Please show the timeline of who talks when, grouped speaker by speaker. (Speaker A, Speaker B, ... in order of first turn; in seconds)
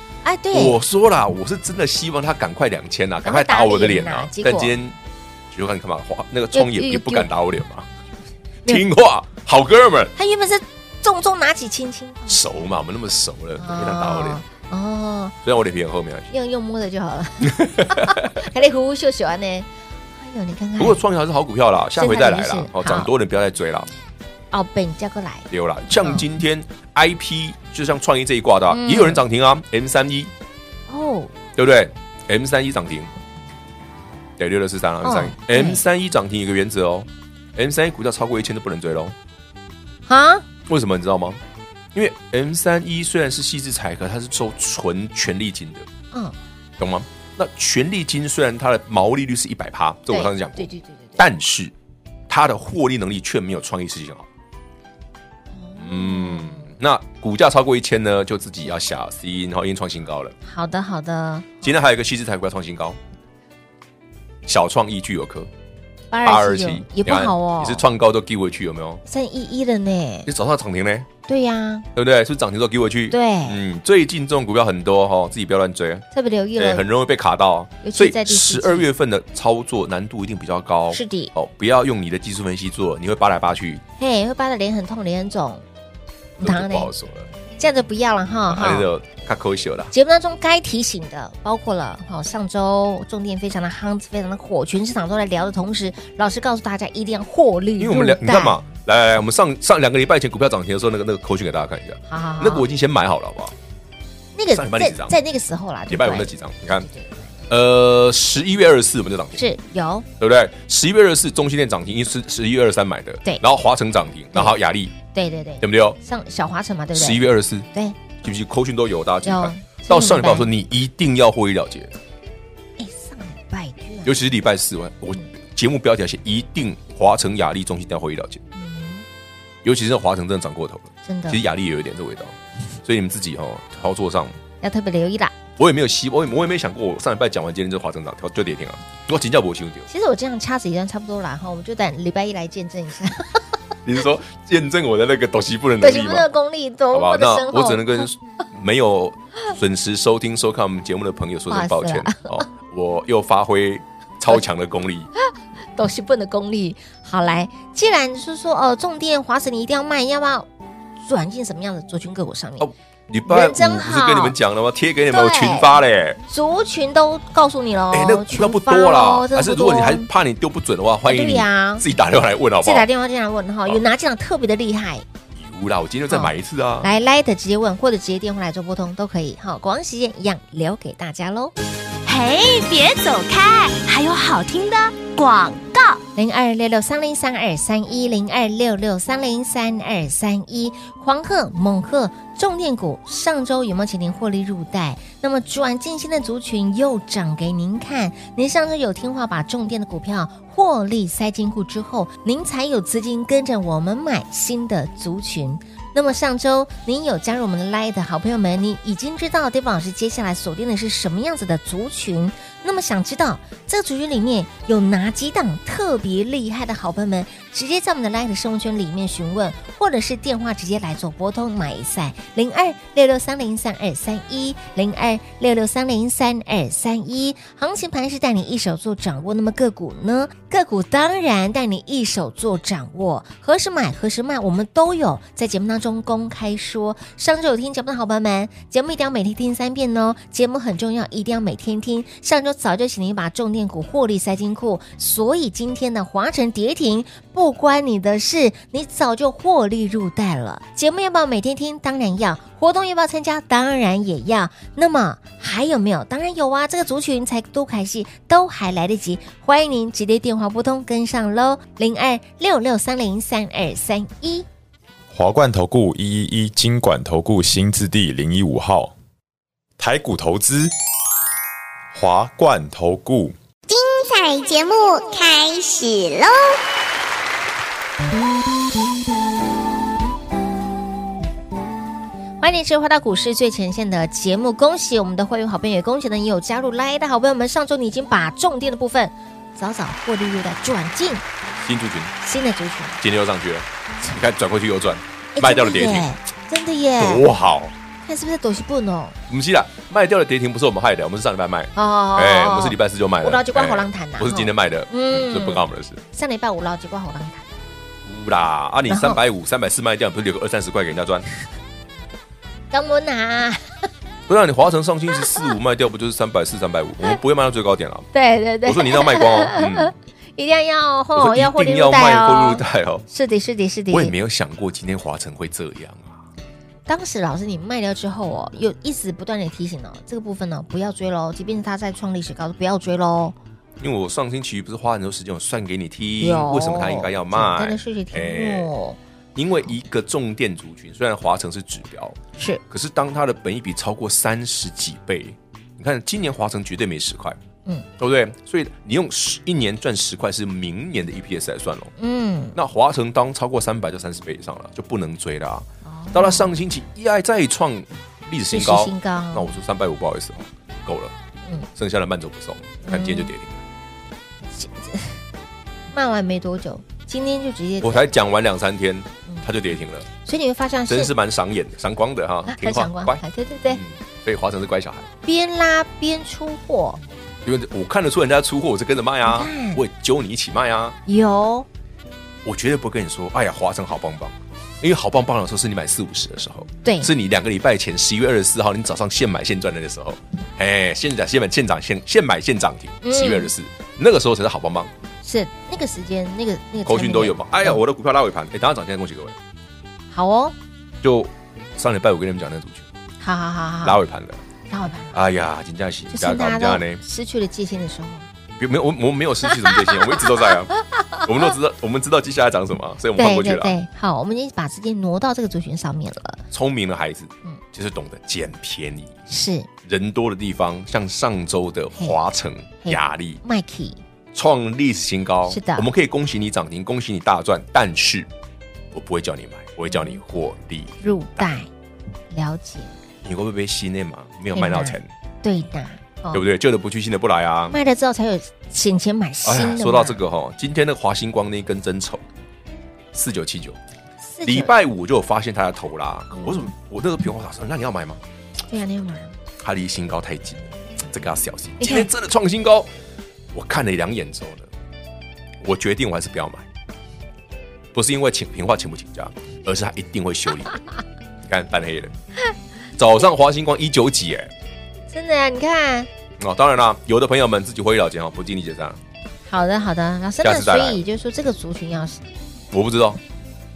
Speaker A: 0.2-0.8, 3.2-4.8, 6.5-7.3, 10.2-12.4, 13.6-15.3, 16.3-21.0, 21.9-23.1, 24.5-26.2, 28.7-29.2, 30.9-31.3, 35.0-35.8, 40.1-40.4, 50.1-51.2, 55.5-56.7, 60.4-61.7, 66.1-67.8, 69.0-70.3, 71.3-71.9, 73.1-73.6, 76.1-76.9, 77.8-78.9, 80.9-81.3, 84.0-85.6, 86.4-86.9, 87.6-88.9, 89.9-98.7, 102.1-102.7, 104.3-107.3, 109.4-110.0, 115.1-117.2, 119.2-120.5, 122.8-124.2, 128.6-129.0, 131.0-131.4, 134.6-135.3, 139.9-143.4, 145.8-148.1, 151.5-152.4, 155.8-160.5, 161.0-162.7, 163.2-164.3, 165.1-165.7, 166.3-170.1, 171.1-171.8, 172.6-175.1, 176.1-181.5, 186.2-264.4, 282.4-291.2, 292.2-293.0, 295.3-297.3, 298.0-299.2, 301.8-307.5, 308.9-309.2, 312.7-313.9, 318.1-324.1, 326.9-333.4, 336.2-339.0, 352.0-352.6, 355.8-356.5, 358.5-359.5, 362.8-363.3, 364.5-365.2, 365.9-368.1, 370.2-371.1, 372.5-373.8, 375.2-377.0, 379.2-379.8, 381.1-381.7, 386.8-387.1, 393.0-393.5, 395.2-397.8, 400.1-400.5, 403.2-404.0, 404.7-405.2, 406.1-408.3, 409.5-411.2, 413.2-416.4, 419.3-419.7, 422.8-424.0, 425.5-425.9, 429.9-430.2, 431.0-431.7, 432.3-432.9, 434.5-436.4, 437.7-440.2, 444.2-444.7, 446.3-446.7, 448.7-449.3, 451.8-452.1, 465.1-466.1, 469.5-472.2
Speaker B: 0.5-5.0, 5.5-7.9, 8.7-10.1, 12.3-14.4, 15.4-16.3, 17.4-18.3, 20.8-23.9, 25.5-30.3, 31.5-33.1, 34.4-39.1, 40.7-41.4, 41.9-45.9, 46.8-51.7, 52.3-54.3, 55.8-60.3, 61.6-63.0, 64.5-65.5, 66.2-69.0, 70.2-71.1, 71.9-83.8, 86.4-87.3, 88.5-89.9, 97.8-103.5, 104.5-105.2, 105.9-106.9, 107.5-109.4, 110.2-115.0, 115.6-116.0, 116.9-117.7, 118.2-122.0, 124.0-128.4, 129.6-134.3, 135.6-139.9, 143.8-146.3, 146.9-155.1, 162.6-166.2, 167.9-172.9, 175.3-176.9, 291.6-292.1, 293.0-296.1, 297.0-297.7, 299.3-306.0, 308.1-311.2, 314.3-318.1, 318.6-319.9, 321.1-323.0, 323.9-326.2, 333.8-338.7, 339.3-342.2, 342.7-347.4, 348.0-351.9, 352.5-361.1, 361.8-363.6, 367.8-370.1, 370.9-375.1, 377.4-380.9, 382.4-394.9, 396.9-399.4, 401.0-402.9, 403.8-404.4, 405.1-407.0, 408.6-413.7, 416.5-419.1, 419.8-423.4, 424.3-428.3, 428.9-431.5, 433.2-435.1, 436.3-437.8, 439.4-442.2, 443.1-443.8, 444.4-448.2, 449.6-452.9, 453.5-454.7, 455.6-456.6, 457.9-460.8, 461.4-462.1, 463.0-464.5, 466.4-469.0, 470.4-471.0, 472.7-473.2
Speaker C: 182.1-186.0
Speaker D: 265.1-268.9, 269.8-270.7, 271.9-273.3
Speaker E: 273.7-276.6